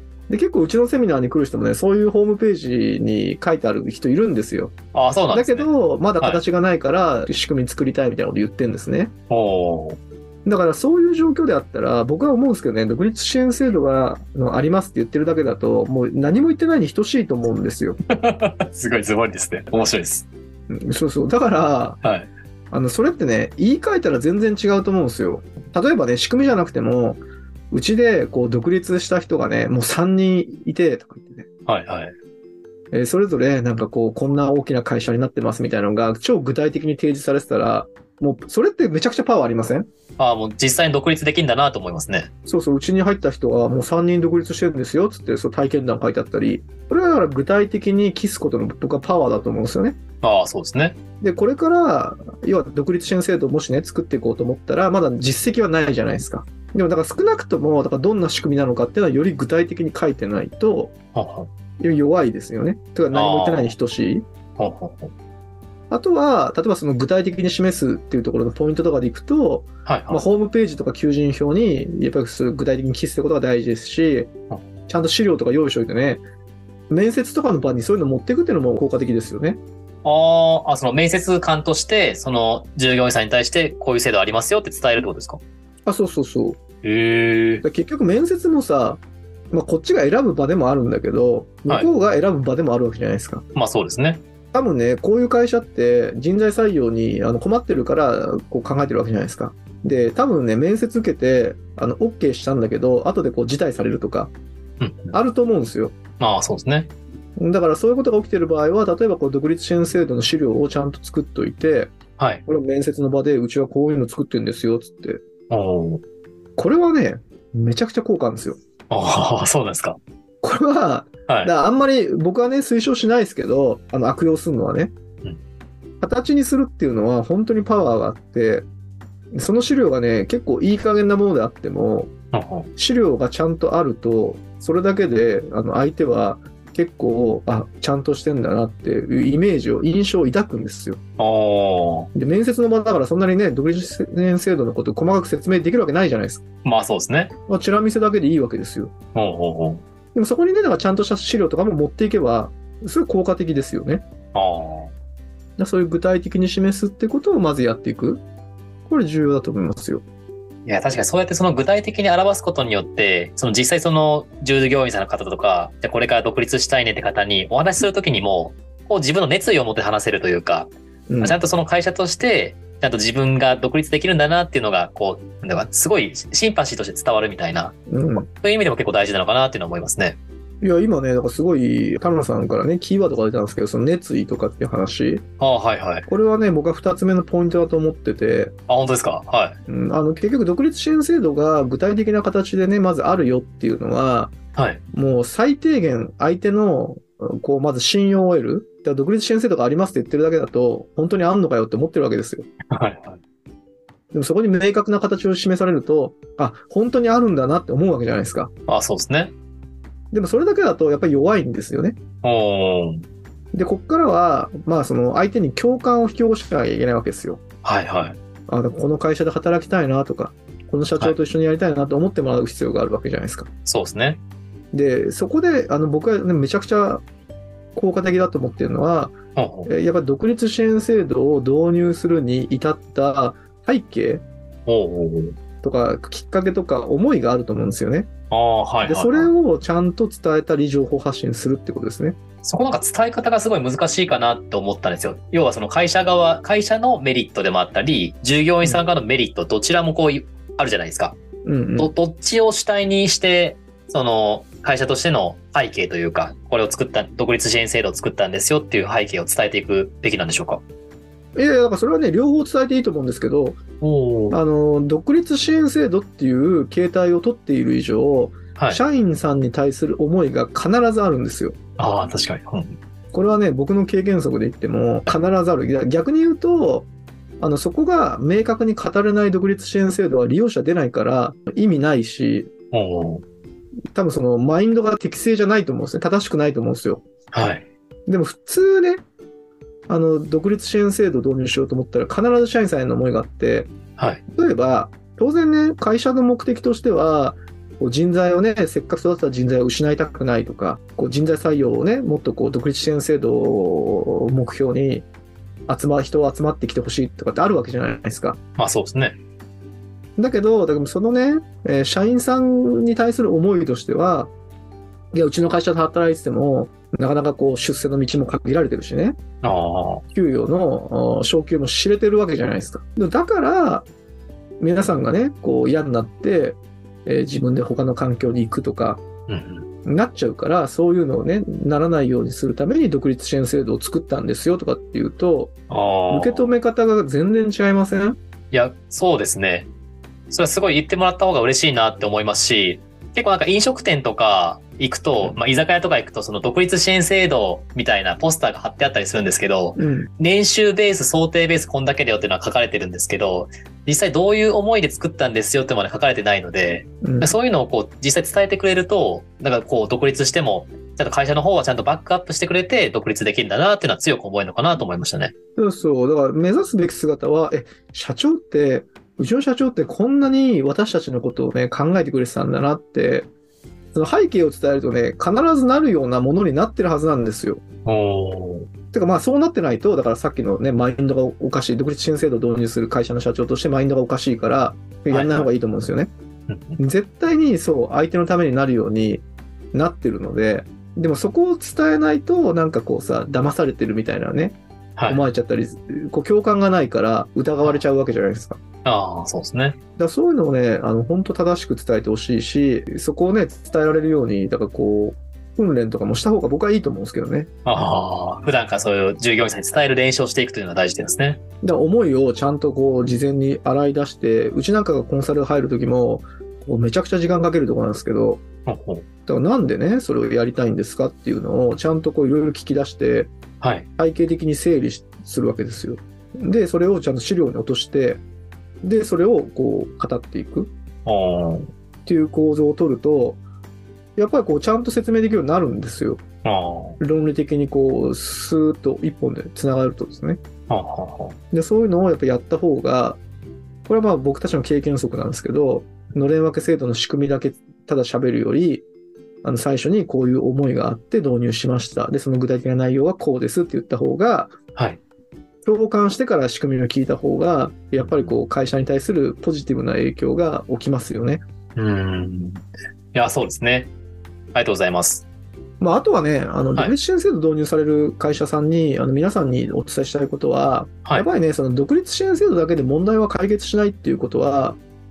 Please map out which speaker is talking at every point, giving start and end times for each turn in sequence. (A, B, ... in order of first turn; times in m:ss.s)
0:00.3-0:04.8 A
0:04.9-0:06.4 B
0:05.3-0:09.1 A
0:09.3-0:10.0 B
0:10.4-0:18.0 A
0:18.1-0:20.3 B
0:20.7-0:22.0 A
0:22.0-0:22.3 B
0:22.7-0:31.5 A
0:31.7-0:32.2 B
0:32.9-0:39.9 A
0:40.2-0:42.3 B
0:42.5-0:50.0 A
0:50.2-0:51.0 B
0:51.2-1:00.9 A
1:01.2-1:01.5 B
1:01.8-1:04.3 A
1:03.1-1:03.7 B
1:04.6-1:05.1 B
1:05.9-1:14.3 A
1:09.9-1:10.2 B
1:14.9-1:16.2 A
1:16.9-1:19.6 A
1:20.0-1:25.4 B
1:25.9-1:26.6 A
1:26.8-1:27.6 B
1:27.6-1:29.0 A
1:29.5-1:33.4 A
1:33.6-1:34.2 B
1:34.5-1:44.3 A
1:44.8-1:45.1 B
1:45.1-1:46.0 A
1:46.2-1:46.9 B
1:47.4-1:51.9 A
1:52.2-1:52.4 B
1:52.5-1:55.2 A
1:55.5-1:56.0 B
1:56.6-1:58.6 A
1:58.9-2:00.0 B
2:00.4-2:04.9 A
2:01.3-2:01.5 B
2:06.0-2:08.7 A
2:09.3-2:12.1 A
2:12.3-2:12.7 B
2:12.8-2:21.0 A
2:21.2-2:22.1 B
2:22.1-2:26.4 A
2:26.6-2:27.3 B
2:27.5-2:28.9 A
2:29.2-2:29.8 B
2:30.1-2:34.0 A
2:34.3-2:34.9 B
2:35.6-2:38.2 A
2:38.9-2:40.0 A
2:40.7-2:57.8 B
2:51.1-2:51.4 A
2:57.9-2:58.3 A
2:58.3-3:00.2 B
3:00.6-3:05.2 A
3:05.4-3:06.1 B
3:06.1-3:08.6 A
3:08.7-3:09.6 B
3:09.7-3:14.4 A
3:14.6-3:14.8 B
3:14.9-3:22.5 A
3:22.7-3:23.2 B
3:24.1-3:28.5 A
3:28.7-3:29.3 B
3:30.1-3:32.0 A
3:32.2-3:33.1 B
3:33.5-3:37.4 A
3:37.6-3:38.2 B
3:38.5-3:43.5 A
3:43.7-3:44.2 B
3:44.7-3:47.0 A
3:47.8-3:54.2 A
3:49.4-3:49.7 B
3:54.7-3:55.4 B
3:55.6-3:58.1 A
3:58.3-3:59.3 B
3:58.8-4:02.2 A
4:02.4-4:11.2 B
4:11.4-4:11.9 A
4:11.8-4:20.6 B
4:21.4-4:23.6 A
4:23.8-4:24.4 B
4:24.3-4:31.6 A
4:28.6-4:28.8 B
4:31.8-4:32.8 B
4:33.1-4:36.9 A
4:37.4-4:42.5 A
4:42.7-4:43.2 B
4:43.9-4:47.0 A
4:47.3-4:47.7 B
4:48.1-4:49.0 A
4:49.9-4:53.7 A
4:54.0-4:54.2 B
4:54.3-5:05.1 A
5:05.7-5:08.4 A
5:08.6-5:09.2 B
5:10.2-5:14.3 A
5:15.1-5:19.2 A
5:19.4-5:20.0 B
5:20.1-5:23.9 A
5:24.6-5:29.0 A
5:29.3-5:29.7 B
5:29.9-5:35.5 A
5:35.7-5:36.5 B
5:36.1-5:38.2 A
5:38.5-5:39.7 B
5:40.3-6:05.3 B
5:49.8-5:50.1 A
5:57.0-5:57.4 A
6:05.6-6:13.3 A
6:13.9-6:17.6 A
6:17.8-6:18.7 B
6:18.9-6:26.1 A
6:25.1-6:25.5 B
6:26.5-6:26.8 B
6:26.8-6:34.6 A
6:35.0-6:35.2 B
6:35.1-6:38.6 A
6:38.8-6:39.8 B
6:40.0-6:47.5 A
6:47.6-6:51.4 B
6:51.6-6:58.4 A
6:58.7-6:59.0 B
6:59.3-7:03.3 A
7:03.6-7:03.9 B
7:04.0-7:08.2 A
7:08.8-7:10.7 A
7:11.0-7:11.7 B
7:12.1-7:13.4 A
7:14.2-7:16.2 A
7:16.4-7:17.0 B
7:17.0-7:20.4 A
7:20.7-7:21.4 B
7:21.5-7:23.2 A
7:23.9-7:28.8 A
7:29.4-7:34.6 A
7:34.8-7:35.0 B
7:35.6-7:41.4 A
7:38.0-7:38.3 B
7:41.8-7:43.9 B
7:44.5-7:45.3 B
7:45.8-7:54.8 A